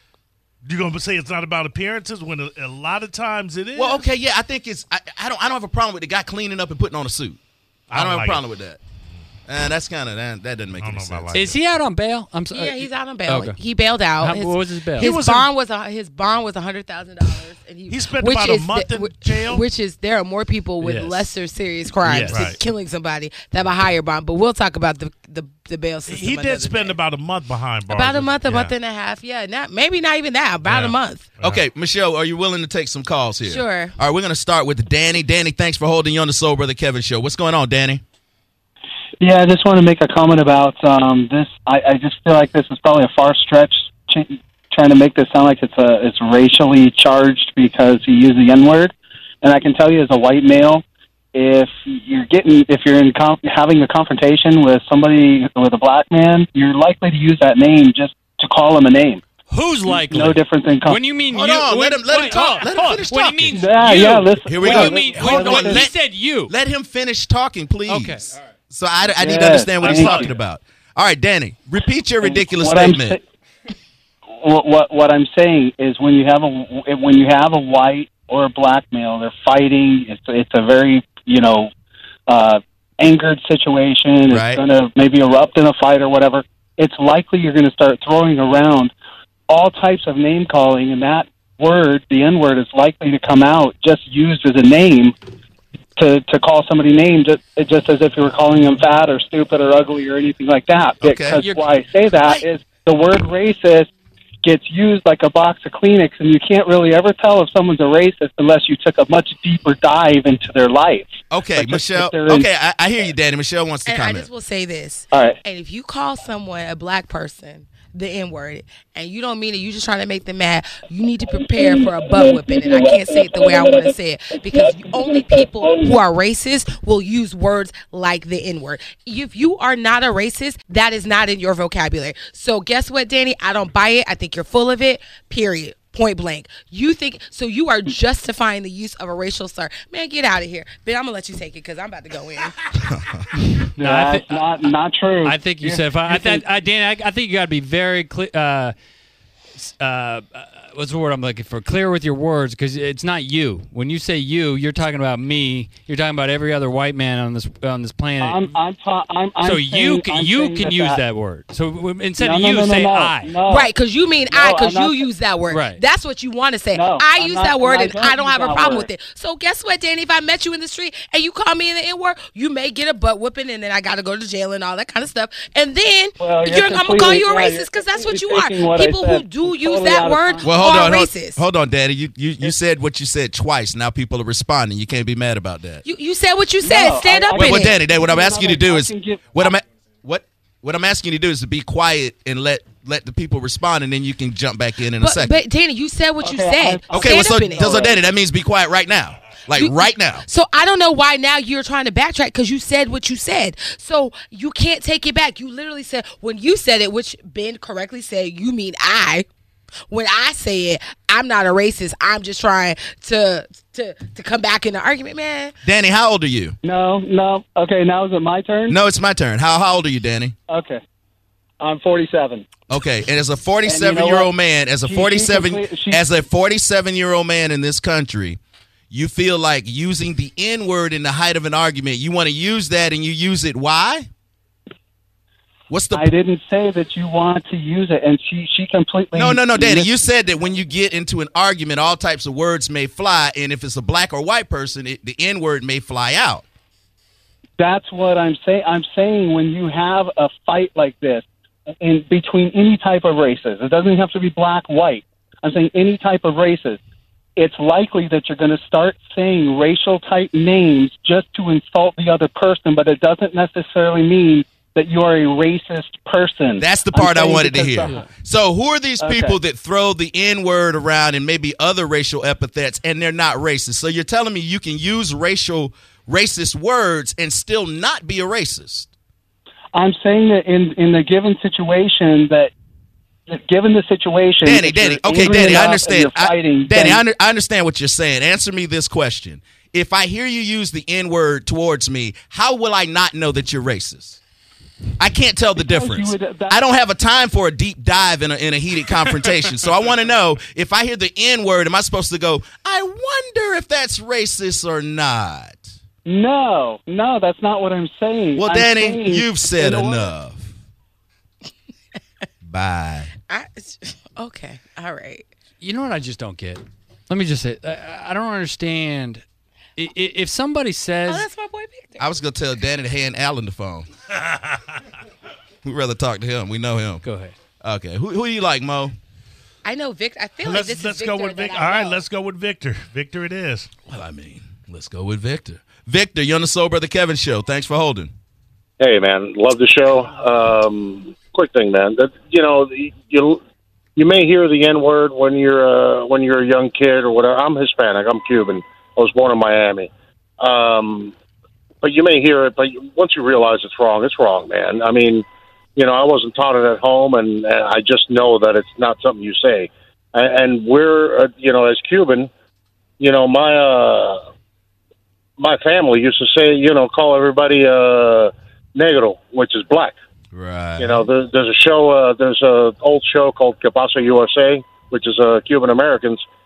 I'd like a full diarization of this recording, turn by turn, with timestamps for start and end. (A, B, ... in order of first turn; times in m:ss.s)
0:00.6-0:04.0 A
0:03.8-0:07.4 B
0:07.9-0:08.4 A
0:07.9-0:08.8 B
0:09.5-0:11.3 B
0:10.8-0:11.6 A
0:11.3-0:13.6 C
0:12.5-0:27.0 D
0:14.2-0:15.1 C
0:15.0-0:15.5 A
0:17.9-0:19.6 A
0:20.8-0:21.2 C
0:22.0-0:22.5 C
0:22.2-0:22.6 A
0:26.1-0:28.7 A
0:27.9-0:31.3 D
0:30.6-0:31.6 A
0:31.4-0:38.0 B
0:33.4-0:34.0 D
0:39.2-0:50.8 E
0:51.3-0:59.3 E
0:59.5-1:06.5 C
0:59.8-1:01.0 E
1:01.3-1:03.6 B
1:03.5-1:05.9 E
1:04.4-1:05.9 B
1:06.5-1:13.2 B
1:07.9-1:08.3 C
1:09.2-1:10.3 E
1:09.8-1:10.2 C
1:12.2-1:13.2 E
1:14.4-1:21.7 E
1:22.3-1:28.9 E
1:24.3-1:24.6 B
1:29.5-1:35.1 E
1:36.0-1:43.9 E
1:41.0-1:41.4 B
1:41.3-1:41.7 C
1:44.4-1:52.5 E
1:51.3-1:54.3 B
1:53.8-2:22.6 D
1:55.1-1:55.4 E
2:02.5-2:03.1 E
2:22.9-2:23.3 B
2:23.8-2:26.4 E
2:23.8-2:24.7 C
2:25.2-2:28.7 C
2:29.6-2:38.5 C
2:38.2-2:41.0 E
2:39.4-2:43.4 C
2:42.2-2:43.7 E
2:43.5-3:01.4 D
2:44.3-2:45.0 E
2:45.5-2:45.8 C
2:46.7-2:48.9 E
2:56.2-3:00.5 E
3:00.4-3:05.8 B
3:05.8-3:07.8 D
3:06.6-3:09.5 E
3:07.3-3:15.4 B
3:15.0-3:17.9 D
3:16.2-3:17.9 E
3:16.9-3:20.2 B
3:19.5-3:29.2 D
3:29.9-3:35.6 D
3:35.6-3:36.6 B
3:36.6-3:38.8 E
3:38.7-3:40.3 B
3:40.5-3:40.8 E
3:41.6-3:42.4 E
3:42.7-3:48.4 B
3:43.6-3:44.3 E
3:44.8-3:46.0 E
3:48.9-3:54.1 B
3:55.7-3:56.1 B
3:55.9-4:00.1 E
3:59.1-4:06.4 B
4:07.6-4:11.2 E
4:11.8-4:16.8 E
4:17.4-4:28.0 E
4:26.6-4:38.9 B
4:29.0-4:29.4 E
4:39.7-4:42.5 E
4:43.3-4:47.0 E
4:44.4-4:54.2 B
4:55.0-5:05.7 B
4:55.6-4:56.6 E
5:06.0-5:10.1 E
5:08.3-5:10.5 B
5:12.4-5:13.1 B
5:13.3-5:15.2 D
5:15.6-5:19.2 C
5:19.8-5:21.2 C
5:21.0-5:22.1 D
5:22.0-5:23.9 B
5:24.2-5:24.6 A
5:25.6-5:27.0 B
5:27.0-5:27.3 C
5:27.6-5:28.9 B
5:29.6-5:32.0 D
5:30.4-5:33.7 A
5:33.9-5:38.1 B
5:38.8-5:43.4 F
5:44.0-5:51.1 F
5:51.8-5:55.2 F
5:55.8-6:02.3 F
6:03.0-6:04.2 F
6:05.4-6:09.9 F
6:10.3-6:11.0 B
6:10.8-6:16.2 F